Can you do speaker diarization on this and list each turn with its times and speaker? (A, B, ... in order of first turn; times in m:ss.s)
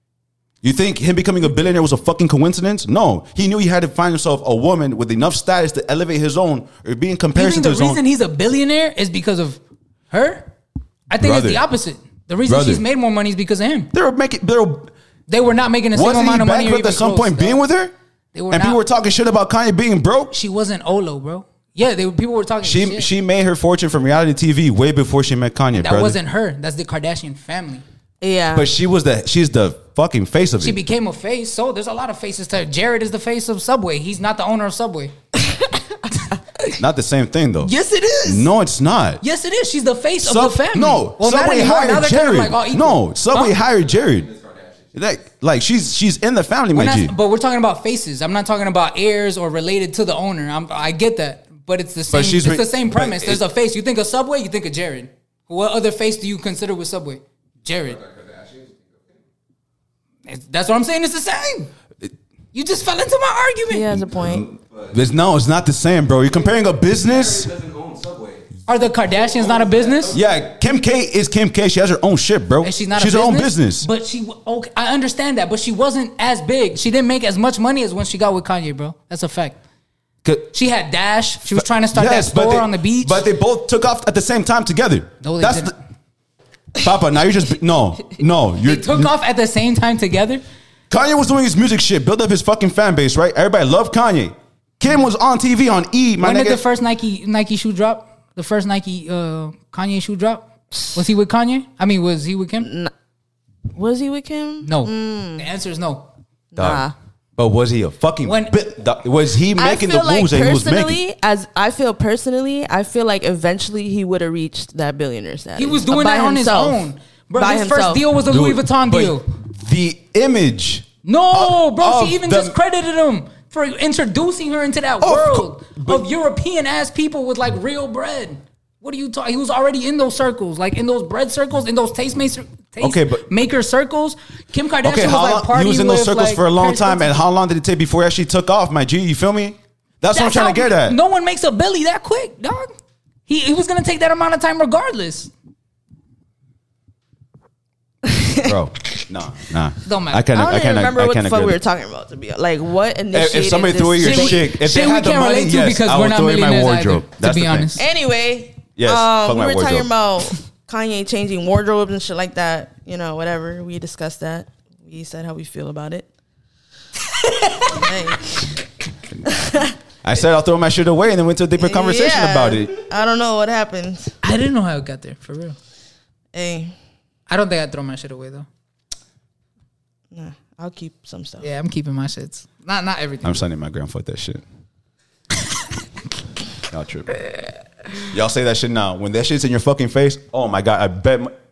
0:00.6-0:08.0 A
0:07.4-0:10.5 B
0:11.1-0:13.9 B
0:11.2-0:11.7 A
0:12.5-0:12.8 A
0:13.9-0:14.9 A
0:15.3-0:17.6 B
0:15.9-0:17.9 A
0:18.3-0:18.8 B
0:18.5-0:20.3 A
0:20.3-0:23.1 B
0:22.6-0:26.2 A
0:25.8-0:27.8 B
0:28.2-0:28.7 C
0:28.5-0:30.8 A
0:30.6-0:35.1 B
0:36.8-0:37.7 A
0:37.6-0:38.5 B
0:38.2-0:39.2 A
0:39.2-0:43.6 B
0:40.2-0:44.4 A
0:44.9-0:47.2 A
0:46.7-0:58.0 B
0:52.1-0:53.4 A
1:00.3-1:01.7 B
1:02.5-1:03.9 B
1:03.7-1:04.5 C
1:04.2-1:08.1 A
1:08.7-1:10.2 B
1:10.1-1:13.9 A
1:12.6-1:19.6 B
1:20.2-1:20.5 A
1:20.5-1:23.3 B
1:21.5-1:25.7 A
1:25.2-1:25.7 B
1:26.8-1:29.1 A
1:28.6-1:30.4 B
1:30.9-1:36.6 A
1:36.2-1:42.7 B
1:42.6-1:42.9 C
1:43.7-1:45.5 C
1:44.6-1:46.1 B
1:46.5-1:47.0 C
1:46.6-1:51.0 A
1:48.2-1:48.6 B
1:49.6-1:58.1 C
1:55.6-1:59.3 B
1:58.2-2:02.6 A
2:01.0-2:17.2 B
2:05.0-2:06.1 A
2:12.8-2:13.2 A
2:14.8-2:21.0 A
2:20.1-2:22.7 B
2:23.3-2:25.3 B
2:28.0-2:28.5 C
2:28.4-2:31.6 A
2:29.8-2:30.3 B
2:30.3-2:34.4 C
2:33.1-2:37.8 A
2:34.0-2:37.8 B
2:37.8-2:46.1 C
2:38.8-2:39.9 A
2:47.6-2:48.5 C
2:49.3-2:49.7 C
2:50.0-2:52.8 A
2:51.6-2:54.2 C
2:54.2-2:55.6 B
2:56.3-2:56.8 C
2:57.3-2:58.5 B
3:00.1-3:01.4 C
3:01.4-3:03.4 B
3:03.2-3:04.4 A
3:06.7-3:07.1 A
3:08.0-3:11.3 A